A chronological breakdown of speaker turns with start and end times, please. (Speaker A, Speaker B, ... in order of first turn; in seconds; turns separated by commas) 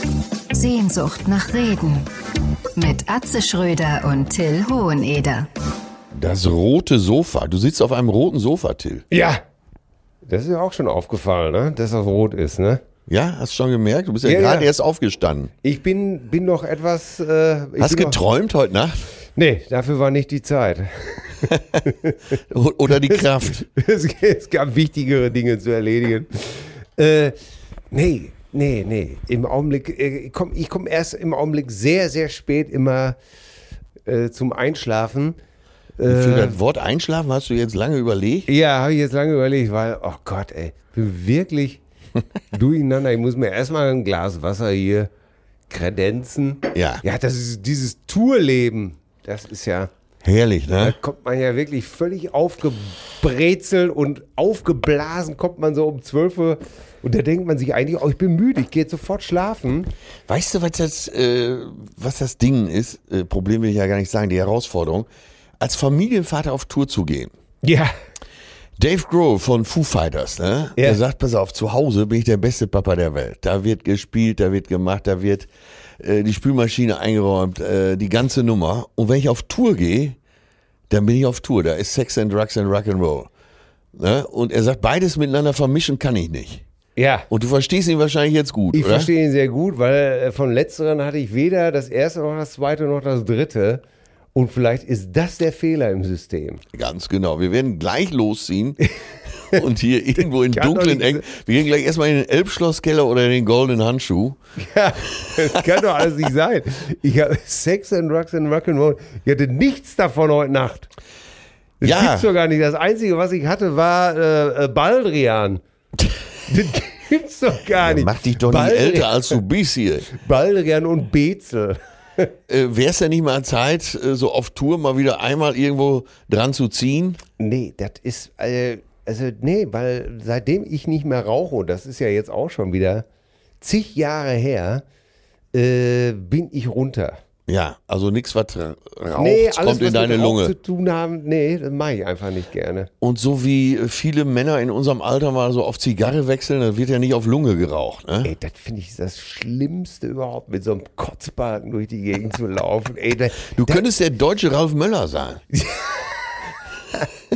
Speaker A: 0.5-2.1, Speaker A: 2.8-5.5, Speaker B: 6.2-9.0, Speaker C: 9.1-9.4, Speaker C: 10.2-12.8, Speaker B: 13.1-15.5, Speaker C: 14.2-14.7, Speaker C: 15.6-18.2, Speaker B: 17.8-19.1, Speaker C: 19.4-22.2, Speaker B: 22.5-23.6, Speaker C: 23.0-27.4, Speaker C: 27.9-33.1, Speaker C: 34.0-35.4, Speaker C: 36.0-36.6, Speaker B: 36.0-38.5, Speaker C: 38.5-41.8, Speaker C: 42.5-45.1, Speaker C: 45.7-49.9, Speaker B: 46.7-47.0, Speaker B: 50.2-51.0, Speaker C: 50.8-59.9, Speaker B: 60.3-65.1, Speaker B: 65.6-67.3, Speaker C: 67.6-67.9, Speaker B: 68.8-75.5, Speaker B: 76.0-80.2, Speaker B: 80.9-83.3, Speaker B: 83.9-86.6, Speaker C: 87.0-87.3, Speaker B: 87.3-89.1, Speaker C: 88.7-93.8, Speaker C: 94.3-96.6, Speaker B: 96.7-98.8, Speaker B: 99.4-104.4, Speaker C: 100.2-101.2, Speaker C: 104.6-110.9, Speaker B: 105.2-105.5, Speaker C: 111.8-115.6, Speaker B: 111.8-112.3, Speaker C: 116.5-119.4, Speaker B: 117.7-120.1, Speaker C: 120.1-122.3, Speaker B: 122.5-127.2, Speaker C: 127.4-133.1, Speaker C: 133.6-134.8, Speaker C: 135.5-137.2, Speaker B: 137.5-140.5, Speaker C: 139.2-142.9, Speaker B: 143.0-148.3, Speaker C: 148.2-153.8, Speaker B: 153.4-155.4, Speaker C: 155.5-156.1